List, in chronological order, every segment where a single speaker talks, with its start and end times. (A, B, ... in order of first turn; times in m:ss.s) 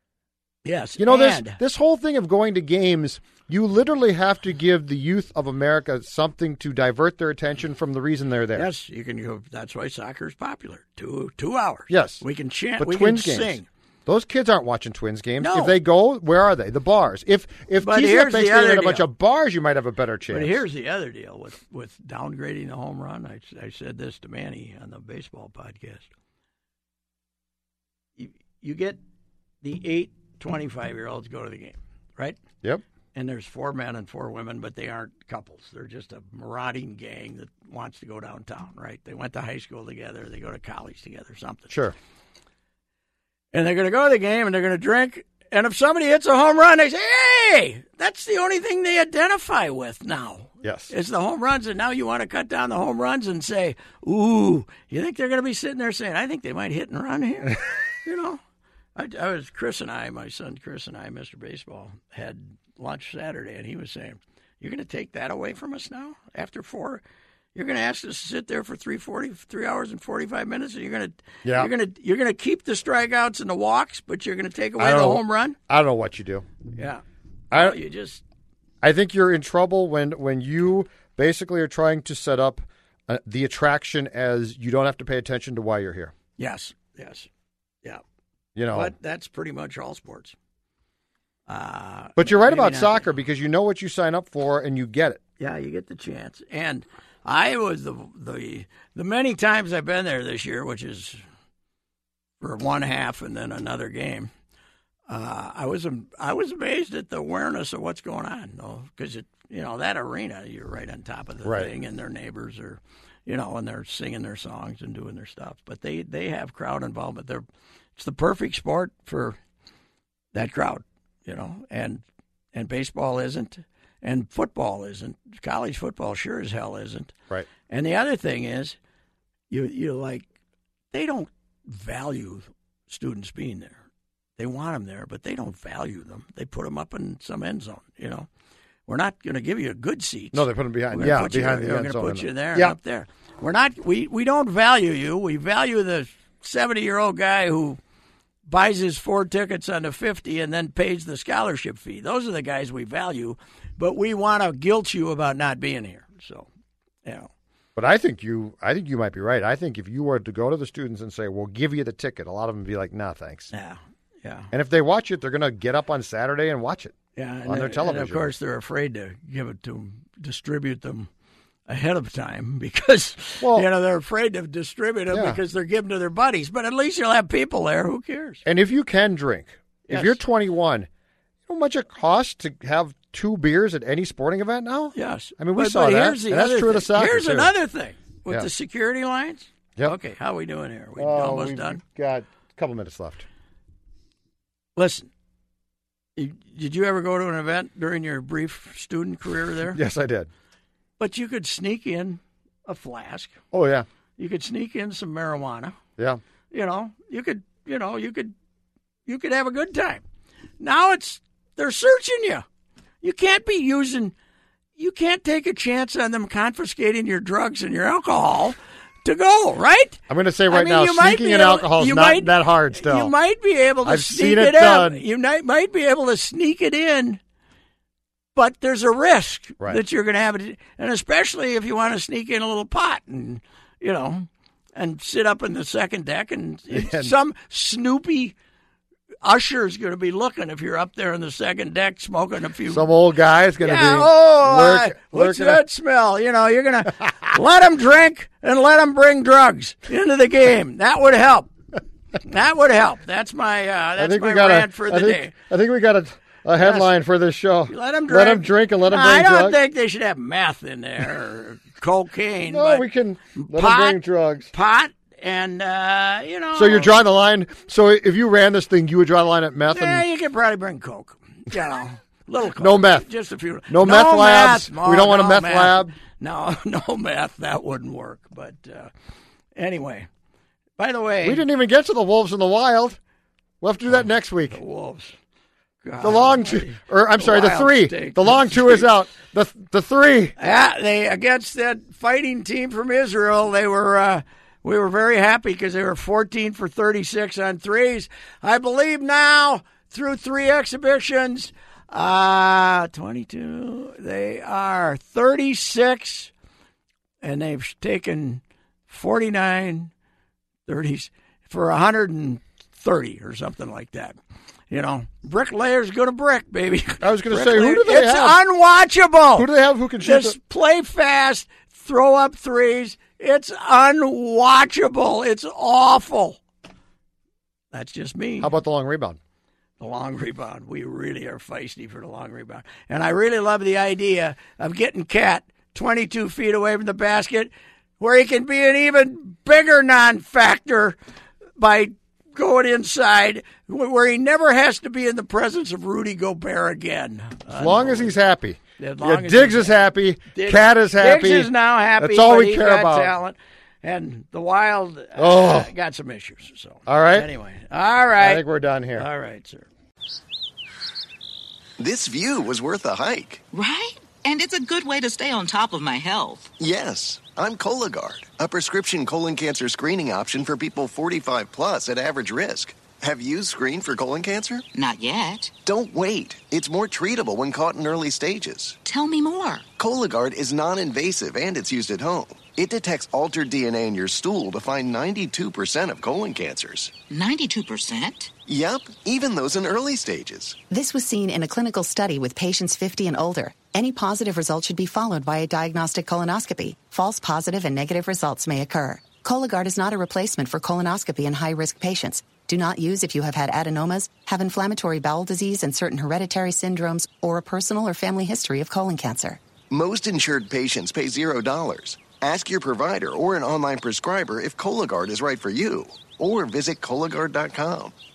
0:00.6-0:01.6 A
0:01.0-0:08.7 B
0:08.6-0:13.7 A
0:11.9-0:12.2 B
0:12.8-0:20.6 B
0:15.4-0:15.8 A
0:17.8-0:19.1 A
0:20.3-0:26.1 A
0:28.2-0:29.0 A
0:29.6-0:32.4 A
0:33.1-0:41.8 A
0:41.7-0:42.0 B
0:43.5-0:58.4 A
0:50.6-0:50.9 B
0:59.0-1:07.0 A
1:07.6-1:15.6 A
1:11.4-1:11.7 B
1:14.8-1:16.5 B
1:16.8-1:18.2 A
1:17.5-1:17.8 B
1:18.8-1:26.1 B
1:26.4-1:27.3 A
1:28.6-1:28.9 B
1:28.7-1:30.4 A
1:31.5-1:33.1 A
1:32.2-1:35.2 B
1:35.4-1:41.2 A
1:42.4-1:44.3 A
1:45.1-1:57.4 A
1:51.4-1:51.7 B
1:58.0-1:59.4 A
2:00.3-2:02.0 A
2:02.5-2:07.1 A
2:07.7-2:08.8 A
2:09.5-2:10.3 A
2:10.9-2:13.8 A
2:14.4-2:18.3 A
2:18.9-2:27.8 A
2:20.3-2:22.8 B
2:28.5-2:36.5 A
2:37.0-2:37.3 A
2:37.8-2:43.5 B
2:43.5-2:44.5 A
2:44.5-2:48.3 B
2:47.2-2:51.1 A
2:51.7-2:58.4 A
2:53.4-2:53.7 B
2:55.1-2:55.4 B
2:58.4-3:00.9 B
2:59.9-3:00.2 A
3:01.5-3:07.5 B
3:04.9-3:11.8 A
3:11.0-3:13.3 B
3:14.8-3:15.1 A
3:16.2-3:19.8 A
3:19.7-3:20.3 B
3:21.0-3:23.4 A
3:23.5-3:23.9 B
3:24.2-3:25.8 A
3:26.5-3:28.3 A
3:29.1-3:30.0 A
3:30.6-3:32.4 A
3:33.0-3:34.1 A
3:34.8-3:47.2 A
3:40.1-3:43.1 B
3:43.8-3:45.0 B
3:48.4-3:58.4 A
3:56.7-3:57.1 B
3:59.2-4:02.9 A
4:02.7-4:05.6 B
4:03.6-4:11.5 A
4:12.2-4:15.3 A
4:14.0-4:19.6 B
4:16.6-4:16.9 A
4:17.7-4:24.0 A
4:22.5-4:24.5 B
4:24.5-4:27.0 A
4:26.5-4:30.0 B
4:29.7-4:38.9 A
4:32.6-4:33.1 B
4:33.7-4:35.9 B
4:39.6-4:40.1 A
4:40.8-4:41.4 A
4:41.2-4:43.0 B
4:43.6-4:44.6 B
4:44.5-4:45.2 A
4:45.8-4:48.9 A
4:46.0-4:50.3 B
4:50.4-5:06.3 A
5:07.2-5:09.9 A
5:10.7-5:14.2 A
5:14.7-5:19.5 A
5:17.0-5:18.4 B
5:19.4-5:20.4 B
5:20.0-5:26.4 A
5:27.7-5:28.5 A
5:28.4-5:29.2 B
5:29.8-5:41.0 A
5:41.6-5:48.2 A
5:47.5-5:53.2 B
5:48.8-5:49.8 A
5:50.3-5:59.7 A
5:55.2-5:55.7 B
5:56.9-5:57.3 B
5:58.2-5:59.1 B
6:01.8-6:03.4 C
6:03.5-6:06.5 D
6:06.6-6:14.6 C
6:14.7-6:15.5 D
6:15.6-6:18.8 C
6:18.8-6:19.7 D
6:19.8-6:26.9 C
6:27.1-6:28.3 D
6:28.5-6:30.6 C
6:30.7-6:49.4 E
6:49.7-6:57.9 C